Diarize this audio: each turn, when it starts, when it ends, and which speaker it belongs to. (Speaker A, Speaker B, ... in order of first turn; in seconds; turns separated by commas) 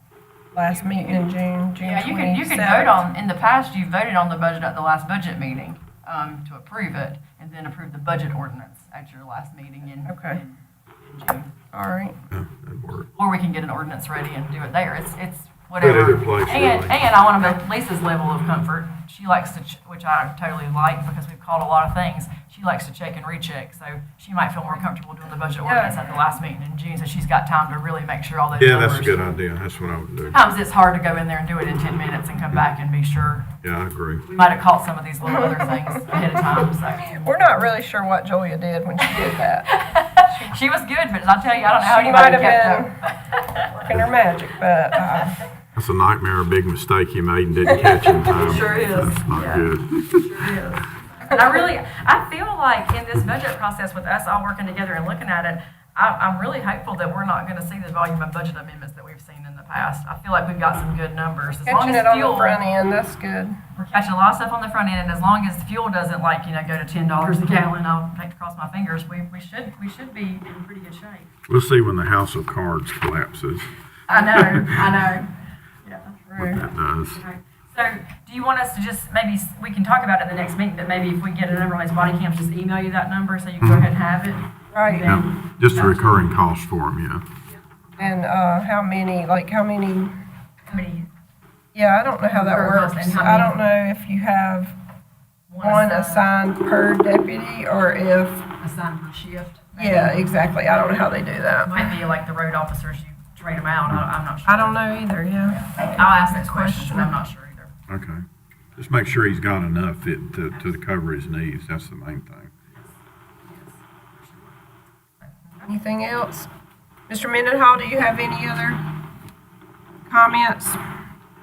Speaker A: 0.6-3.0, Speaker B: 0.7-1.3, Speaker B: 1.8-11.5, Speaker A: 10.1-10.4, Speaker A: 11.7-12.2, Speaker C: 12.3-13.1, Speaker B: 13.2-29.3, Speaker C: 15.8-16.9, Speaker A: 25.6-26.0, Speaker C: 28.6-30.4, Speaker B: 30.3-33.5, Speaker C: 33.6-34.3, Speaker B: 34.3-37.7, Speaker A: 36.9-39.7, Speaker B: 39.1-43.7, Speaker A: 41.8-43.0, Speaker A: 43.7-45.4, Speaker C: 45.8-50.3, Speaker B: 47.8-62.6, Speaker A: 61.6-63.6, Speaker B: 63.8-71.3, Speaker C: 71.5-73.7, Speaker B: 74.1-86.1, Speaker C: 74.4-74.8, Speaker A: 76.4-76.7, Speaker C: 76.4-77.2, Speaker C: 83.6-83.9, Speaker A: 84.7-85.2, Speaker C: 85.0-87.2, Speaker A: 88.0-90.1, Speaker B: 90.7-91.1, Speaker A: 91.7-94.7, Speaker B: 92.2-93.6, Speaker B: 95.5-96.3, Speaker A: 95.6-98.5, Speaker B: 98.6-100.3, Speaker A: 99.8-101.8, Speaker B: 101.7-107.7, Speaker A: 104.5-107.1, Speaker C: 107.9-108.2, Speaker C: 108.8-112.5, Speaker B: 113.5-114.5, Speaker B: 115.4-115.7, Speaker A: 115.6-116.5, Speaker A: 117.1-118.8, Speaker A: 120.1-120.8